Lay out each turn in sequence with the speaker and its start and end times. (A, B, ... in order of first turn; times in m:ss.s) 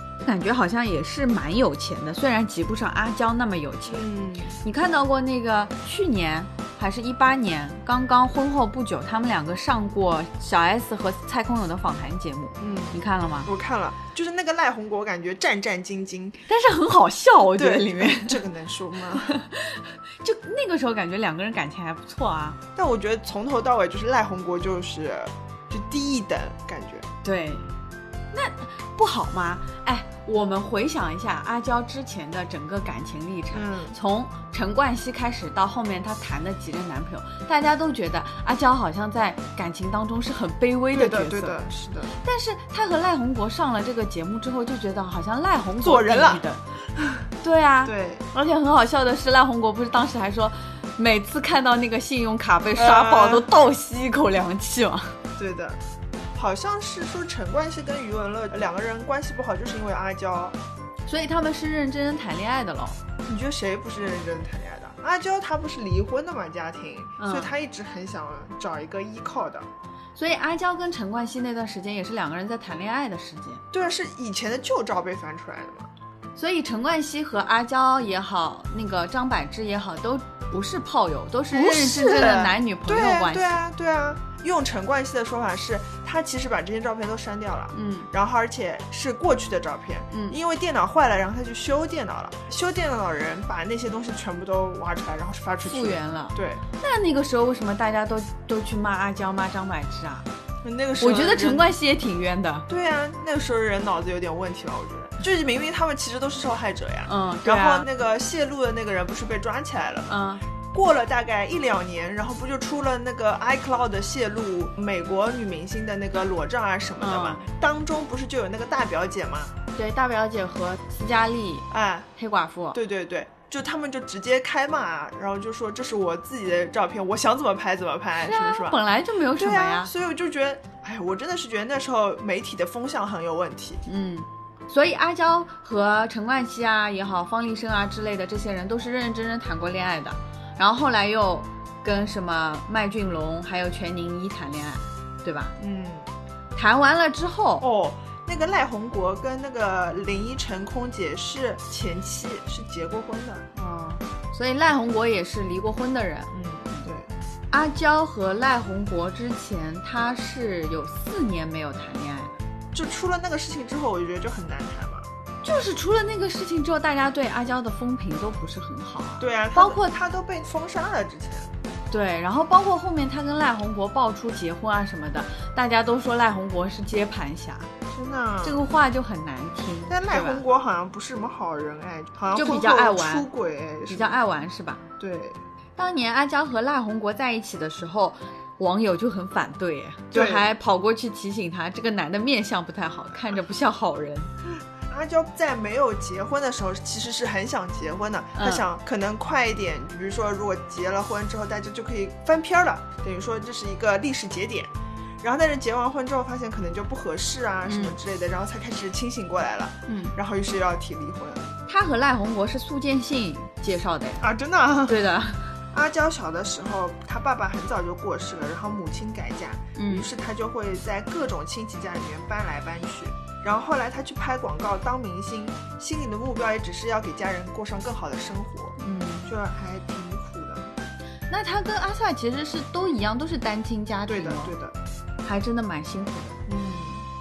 0:00.2-0:04.1 A
0:03.9-0:04.6 B
0:04.6-0:13.5 A
0:12.6-0:16.4 B
0:16.5-0:18.4 A
0:17.6-0:19.4 B
0:19.3-0:22.6 A
0:22.8-0:27.1 B
0:27.2-0:27.7 A
0:28.3-0:41.6 A
0:33.5-0:34.0 B
0:40.9-0:42.1 B
0:42.2-0:46.6 A
0:45.8-0:46.4 B
0:47.0-0:47.2 B
0:47.4-0:55.2 A
0:47.8-0:48.3 B
0:52.8-0:53.5 B
0:55.4-0:55.8 B
0:56.4-1:00.6 B
1:01.1-1:03.0 A
1:03.2-1:09.7 B
1:07.2-1:07.5 A
1:10.2-1:13.6 A
1:13.7-1:15.9 B
1:16.4-1:23.6 A
1:21.5-1:36.6 B
1:27.7-1:28.1 A
1:30.1-1:30.4 A
1:35.7-1:40.3 A
1:40.6-1:41.7 B
1:41.0-1:42.7 A
1:42.7-1:50.2 B
1:47.1-1:47.9 A
1:50.1-1:50.4 A
1:50.7-1:59.5 B
1:57.0-1:57.4 A
1:59.8-2:02.8 A
2:01.7-2:02.1 B
2:02.7-2:08.8 B
2:08.2-2:09.9 A
2:09.3-2:13.8 B
2:13.9-2:25.6 A
2:25.6-2:26.1 B
2:26.6-2:27.6 A
2:27.6-2:33.5 B
2:33.6-2:36.3 A
2:36.3-2:37.1 B
2:37.5-2:42.4 A
2:42.7-2:45.1 B
2:45.4-2:50.0 A
2:49.2-2:51.5 B
2:51.9-2:57.7 A
2:57.9-2:58.7 B
2:58.4-3:00.4 A
2:59.9-3:04.2 B
3:02.3-3:03.3 A
3:03.9-3:04.8 A
3:05.0-3:05.4 B
3:05.8-3:14.3 A
3:10.1-3:10.5 B
3:14.9-3:24.7 B
3:18.4-3:18.6 A
3:25.2-3:31.5 B
3:27.7-3:28.0 A
3:29.9-3:30.2 A
3:31.7-3:34.2 A
3:34.2-3:35.0 B
3:34.9-3:35.5 A
3:35.7-3:50.8 B
3:39.8-3:40.1 A
3:48.8-3:49.3 A
3:51.3-3:54.6 A
3:54.1-3:54.8 B
3:55.2-3:56.4 A
3:56.5-3:57.1 B